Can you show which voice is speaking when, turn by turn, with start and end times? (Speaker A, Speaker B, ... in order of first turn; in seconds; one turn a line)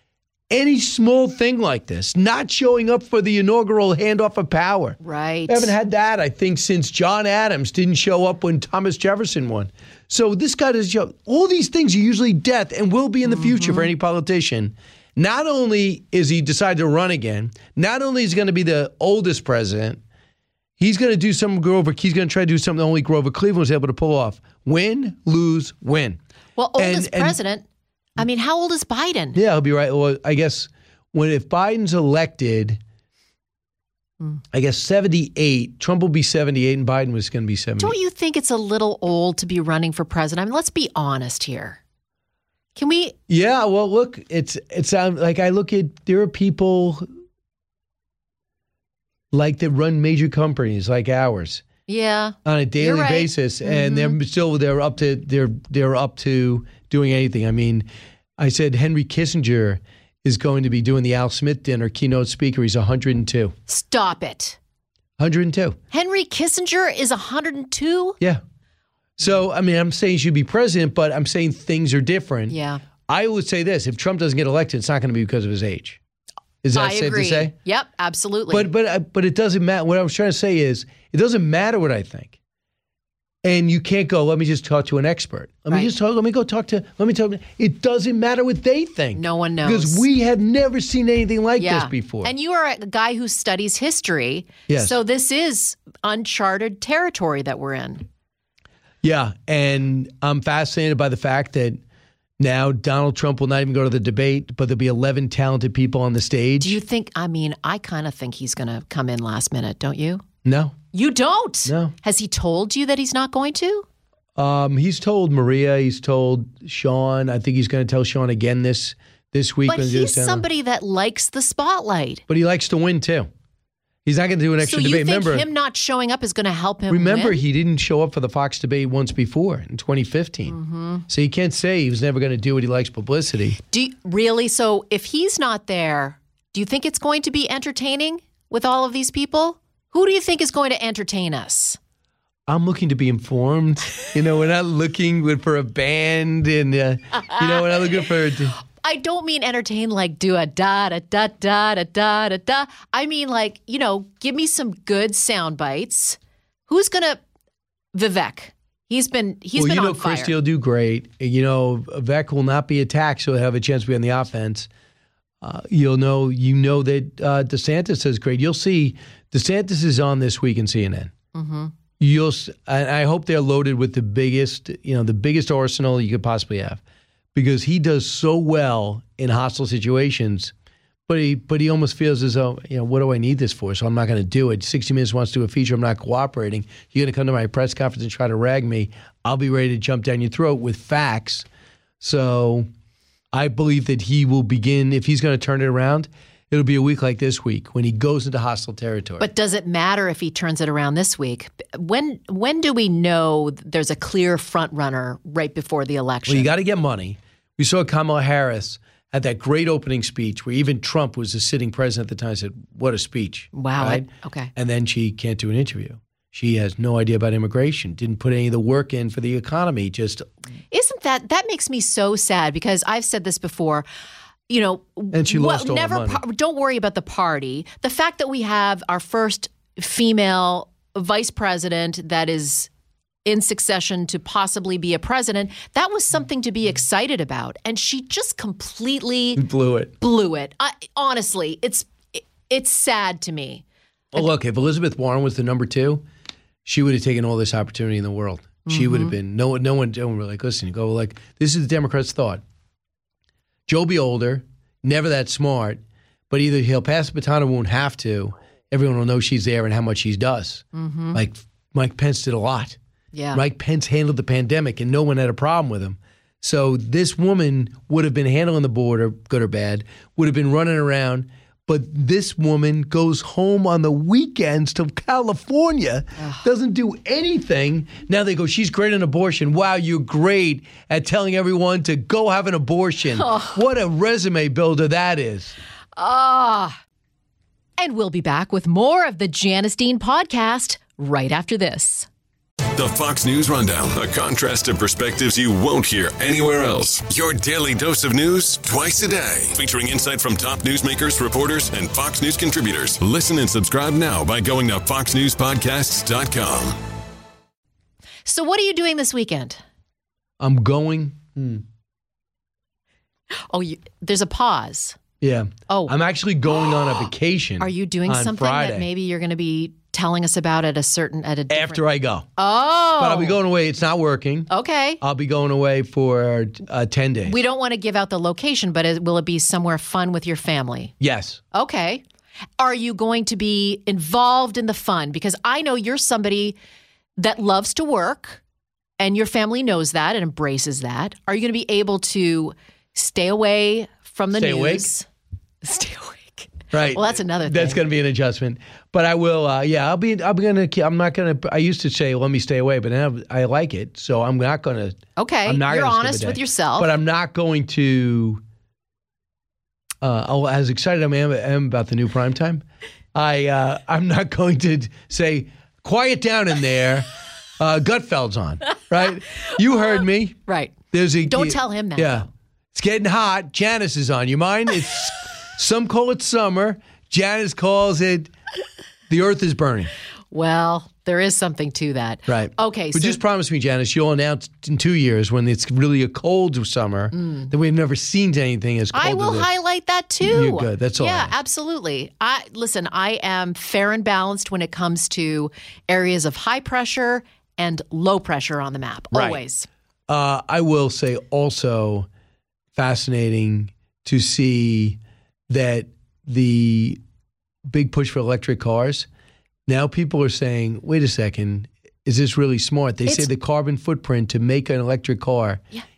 Speaker A: 0.5-20.0
Speaker B: 5.0-5.7
Speaker B: 13.2-13.9
Speaker A: 20.8-26.2
Speaker B: 26.6-27.6
Speaker A: 26.8-27.4
Speaker B: 28.2-29.4
Speaker A: 29.3-32.8
Speaker A: 34.5-38.0
Speaker B: 37.8-41.8
Speaker B: 42.8-43.1
Speaker A: 43.3-47.0
Speaker A: 49.3-51.6
Speaker B: 51.9-54.1
Speaker A: 52.4-63.5
Speaker B: 63.7-64.6
Speaker A: 65.2-65.8
Speaker B: 65.9-68.2
Speaker A: 69.2-72.5
Speaker B: 72.5-72.8
Speaker A: 73.1-76.0
Speaker A: 76.6-77.5
Speaker B: 76.7-78.7
Speaker A: 78.5-82.3
Speaker A: 83.4-92.3
Speaker B: 89.1-90.0
Speaker B: 91.6-98.1
Speaker A: 94.7-95.0
Speaker A: 99.0-101.8
Speaker A: 102.4-106.8
Speaker B: 106.6-110.2
Speaker A: 110.4-110.8
Speaker B: 110.9-113.8
Speaker A: 111.6-111.9
Speaker A: 114.3-120.5
Speaker B: 119.7-122.2
Speaker A: 122.3-123.3
Speaker A: 124.0-125.5
Speaker B: 124.6-127.4
Speaker A: 126.9-130.6
Speaker B: 130.5-131.0
Speaker A: 131.1-133.6
Speaker B: 133.7-141.8
Speaker A: 142.5-148.5
Speaker B: 147.2-148.0
Speaker B: 148.8-157.2
Speaker B: 157.9-160.3
Speaker A: 159.5-164.7
Speaker A: 165.4-171.1
Speaker B: 171.3-171.7
Speaker A: 172.0-176.8
Speaker A: 177.3-180.5
Speaker A: 181.1-191.4
Speaker A: 192.0-192.7
Speaker A: 193.3-199.3
Speaker B: 199.2-206.5
Speaker A: 206.3-220.3
Speaker B: 213.5-214.5
Speaker B: 220.7-223.8
Speaker B: 224.5-232.7
Speaker A: 225.1-226.2
Speaker B: 233.2-239.4
Speaker A: 239.3-239.9
Speaker B: 240.0-243.6
Speaker A: 244.1-246.0
Speaker A: 246.6-252.4
Speaker B: 248.7-249.1
Speaker A: 253.7-262.8
Speaker B: 260.7-261.2
Speaker B: 263.1-263.4
Speaker A: 263.3-285.6
Speaker B: 276.2-276.4
Speaker B: 283.2-283.6
Speaker B: 286.0-286.8
Speaker B: 287.8-292.1
Speaker C: 292.7-306.8
Speaker B: 308.2-309.6
Speaker A: 310.4-311.6
Speaker B: 313.5-315.0
Speaker A: 315.2-318.9
Speaker B: 315.7-315.9
Speaker B: 317.6-321.8
Speaker A: 321.5-322.3
Speaker B: 322.4-323.4
Speaker A: 323.0-324.5
Speaker B: 324.5-325.0
Speaker A: 325.0-327.4
Speaker B: 327.2-330.9
Speaker A: 331.0-331.4
Speaker B: 331.5-332.0
Speaker B: 332.6-336.6
Speaker B: 337.2-338.4
Speaker B: 339.0-345.1
Speaker A: 344.3-344.9
Speaker B: 345.6-347.8
Speaker A: 346.7-358.4
Speaker B: 355.2-356.9
Speaker A: 360.0-370.4
Speaker B: 370.5-372.3
Speaker A: 370.9-378.3
Speaker A: 379.1-379.9
Speaker B: 380.3-383.2
Speaker A: 382.3-389.5
Speaker B: 387.1-387.5
Speaker B: 388.9-399.7
Speaker A: 390.2-391.3
Speaker A: 399.1-399.4
Speaker A: 400.1-402.1
Speaker A: 402.7-407.0
Speaker A: 407.6-409.1
Speaker A: 409.7-415.6